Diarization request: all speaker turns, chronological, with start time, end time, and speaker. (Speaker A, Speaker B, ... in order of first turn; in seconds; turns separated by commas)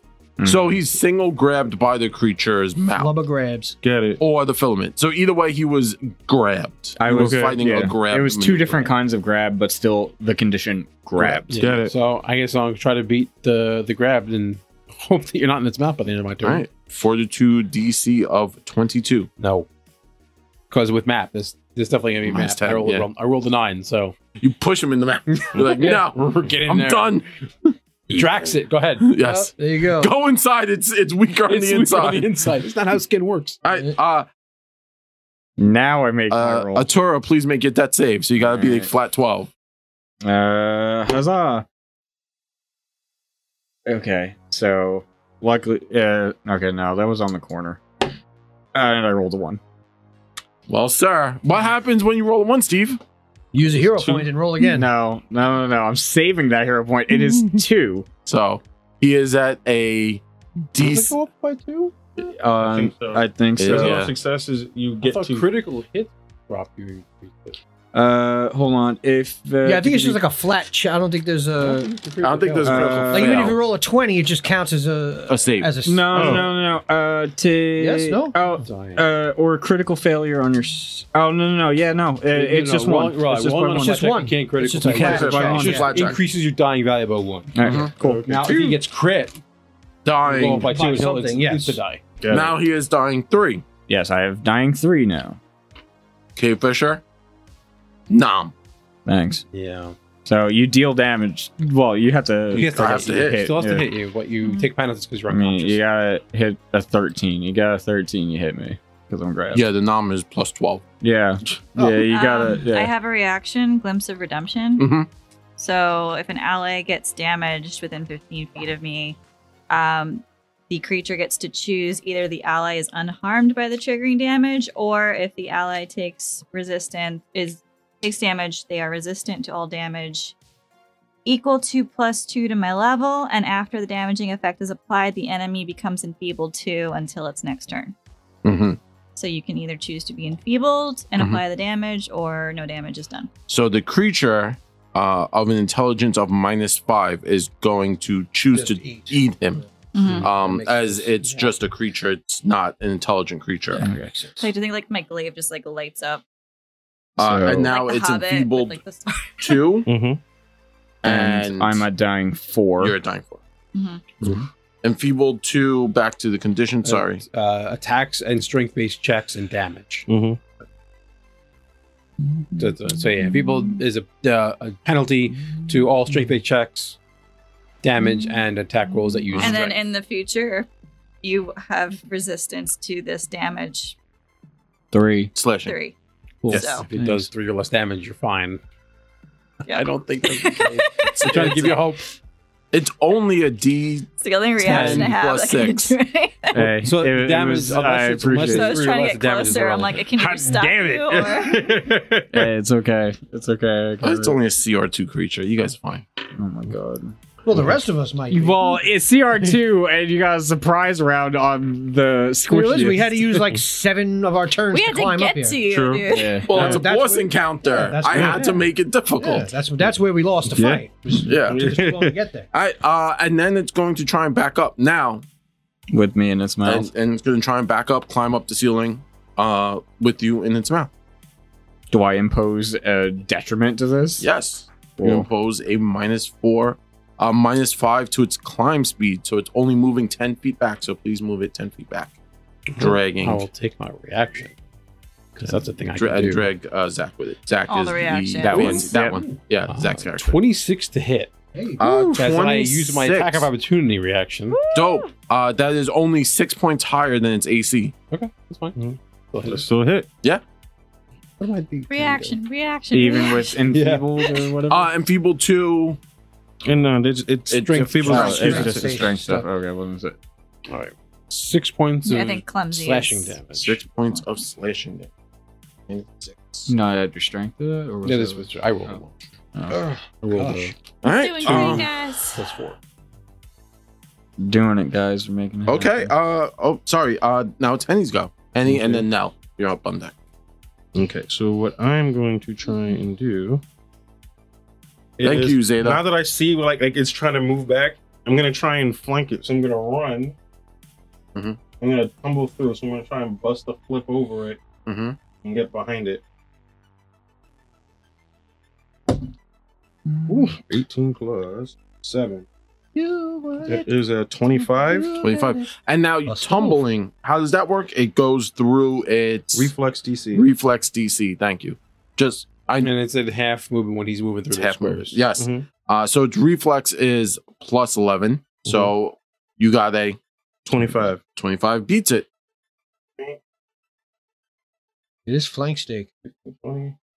Speaker A: 0.4-0.8, Speaker B: 0.4-3.1, Speaker C: 3.0-3.8, Speaker D: 3.8-4.2, Speaker B: 4.2-8.9, Speaker A: 7.0-11.7, Speaker E: 11.2-16.7, Speaker D: 11.6-11.9, Speaker B: 16.4-19.3, Speaker E: 19.4-19.7, Speaker E: 20.7-24.2, Speaker B: 22.2-23.1, Speaker B: 24.4-27.3, Speaker E: 25.6-27.2, Speaker E: 28.1-29.1, Speaker B: 29.0-32.3, Speaker C: 29.2-30.1, Speaker E: 31.5-33.6, Speaker B: 33.6-34.3, Speaker A: 35.6-36.9, Speaker B: 36.3-39.5, Speaker A: 38.4-38.9, Speaker A: 40.2-41.7, Speaker A: 43.9-47.8, Speaker A: 48.7-49.6, Speaker B: 50.7-53.0, Speaker C: 53.5-54.9, Speaker D: 53.7-54.3, Speaker A: 54.6-58.1, Speaker B: 58.2-61.1, Speaker E: 60.8-61.9, Speaker A: 62.2-64.1, Speaker D: 62.6-65.5, Speaker B: 63.6-64.1, Speaker E: 65.0-67.6, Speaker A: 67.9-70.2, Speaker C: 69.7-76.5, Speaker E: 71.6-73.1, Speaker B: 72.2-73.6, Speaker A: 72.6-73.6, Speaker B: 75.3-75.7, Speaker A: 75.8-84.1, Speaker D: 76.1-76.5, Speaker C: 77.8-78.4, Speaker E: 78.6-79.0, Speaker E: 82.3-89.4, Speaker C: 83.8-85.9, Speaker B: 84.8-86.2, Speaker A: 84.9-85.9, Speaker A: 87.5-88.8, Speaker B: 87.6-87.9, Speaker D: 88.0-88.7, Speaker B: 90.0-90.7, Speaker E: 90.2-92.0, Speaker C: 90.5-91.8, Speaker D: 92.2-92.5, Speaker B: 92.3-93.7, Speaker A: 93.9-95.4, Speaker B: 96.4-97.0, Speaker B: 98.1-98.5, Speaker A: 99.1-99.5, Speaker E: 99.5-100.0, Speaker A: 100.2-104.0, Speaker B: 102.5-103.4, Speaker E: 102.5-105.8, Speaker F: 104.4-104.7, Speaker A: 105.3-109.6, Speaker B: 109.5-110.8, Speaker A: 111.0-112.9, Speaker F: 111.8-114.9, Speaker B: 114.8-115.1, Speaker F: 115.6-119.2, Speaker F: 119.7-130.3, Speaker F: 131.2-137.9, Speaker B: 138.4-138.8, Speaker F: 139.2-143.3, Speaker B: 143.5-149.6, Speaker C: 148.5-149.5, Speaker F: 149.9-150.3, Speaker C: 150.1-151.5, Speaker B: 150.2-153.8, Speaker C: 153.7-154.5, Speaker A: 153.8-154.1, Speaker F: 154.4-156.2, Speaker B: 157.2-158.8, Speaker A: 157.2-157.7, Speaker F: 157.7-159.7, Speaker B: 159.4-159.9, Speaker D: 159.9-160.2, Speaker B: 161.0-161.9, Speaker A: 161.0-162.9, Speaker B: 162.8-163.4, Speaker F: 163.7-164.0, Speaker B: 164.2-167.2, Speaker E: 166.8-170.1, Speaker D: 170.1-170.4, Speaker E: 172.6-177.0, Speaker E: 177.8-179.8, Speaker B: 179.3-179.6, Speaker F: 179.4-180.7, Speaker F: 181.2-184.0, Speaker A: 184.9-185.3, Speaker B: 185.3-185.8, Speaker F: 185.7-185.9, Speaker E: 186.4-188.6, Speaker F: 186.5-186.9, Speaker A: 186.9-187.3, Speaker F: 189.7-191.4, Speaker B: 189.7-191.8, Speaker E: 190.8-192.1, Speaker B: 192.7-194.1, Speaker F: 194.2-196.7, Speaker E: 194.6-195.1, Speaker B: 194.6-196.0, Speaker A: 196.5-198.8, Speaker E: 196.8-200.2, Speaker F: 198.4-201.6, Speaker D: 200.2-202.5, Speaker A: 202.3-204.4, Speaker B: 204.0-206.1, Speaker A: 206.3-207.2, Speaker C: 207.4-208.7, Speaker A: 208.3-213.4, Speaker C: 212.5-215.6, Speaker F: 214.7-216.5, Speaker D: 215.7-216.1, Speaker A: 216.1-216.5, Speaker B: 216.5-219.5, Speaker C: 216.5-222.5, Speaker D: 218.1-218.4, Speaker D: 220.5-222.2, Speaker B: 221.2-221.6, Speaker B: 222.5-225.2, Speaker A: 225.9-226.9, Speaker B: 226.6-230.9, Speaker A: 231.9-234.3, Speaker B: 234.2-242.2, Speaker A: 235.0-235.3, Speaker B: 242.8-243.5, Speaker E: 242.8-244.5, Speaker E: 245.3-246.5, Speaker B: 245.9-250.4, Speaker F: 247.7-248.9, Speaker A: 248.4-249.3, Speaker E: 249.7-251.3, Speaker C: 251.5-252.1, Speaker B: 251.8-253.5, Speaker E: 252.1-254.6, Speaker F: 254.5-255.1, Speaker B: 254.7-257.9, Speaker E: 258.1-259.7, Speaker D: 258.8-260.1, Speaker E: 261.4-262.3, Speaker F: 261.9-263.6, Speaker A: 262.9-264.9, Speaker E: 263.7-264.1, Speaker B: 264.7-266.0, Speaker D: 266.6-269.0, Speaker B: 267.5-268.7, Speaker E: 267.7-268.5, Speaker A: 268.1-270.2, Speaker C: 268.1-269.4, Speaker E: 270.7-273.8, Speaker F: 272.1-273.4, Speaker B: 273.6-275.1, Speaker B: 275.9-276.7, Speaker A: 276.7-277.6, Speaker C: 277.9-278.4, Speaker E: 278.0-279.1, Speaker A: 279.6-280.7, Speaker C: 279.7-280.7, Speaker E: 280.3-280.7, Speaker B: 281.0-281.9, Speaker F: 281.0-282.4, Speaker E: 281.4-282.8, Speaker A: 284.4-286.1, Speaker B: 285.6-290.1, Speaker E: 288.7-289.0, Speaker D: 290.9-293.6, Speaker D: 295.2-300.4, Speaker B: 295.2-296.0, Speaker D: 301.8-304.6, Speaker B: 304.9-305.2, Speaker D: 305.4-306.2, Speaker D: 310.3-312.5, Speaker C: 312.9-313.9, Speaker D: 313.6-315.1, Speaker C: 314.5-315.7, Speaker B: 315.2-319.7, Speaker C: 316.3-316.8, Speaker D: 319.5-320.5, Speaker B: 320.3-322.9, Speaker E: 322.8-325.2, Speaker B: 324.5-330.2, Speaker D: 325.4-325.7, Speaker D: 328.6-328.9, Speaker D: 330.6-331.2, Speaker B: 331.3-332.3, Speaker C: 335.3-336.1, Speaker D: 336.5-337.0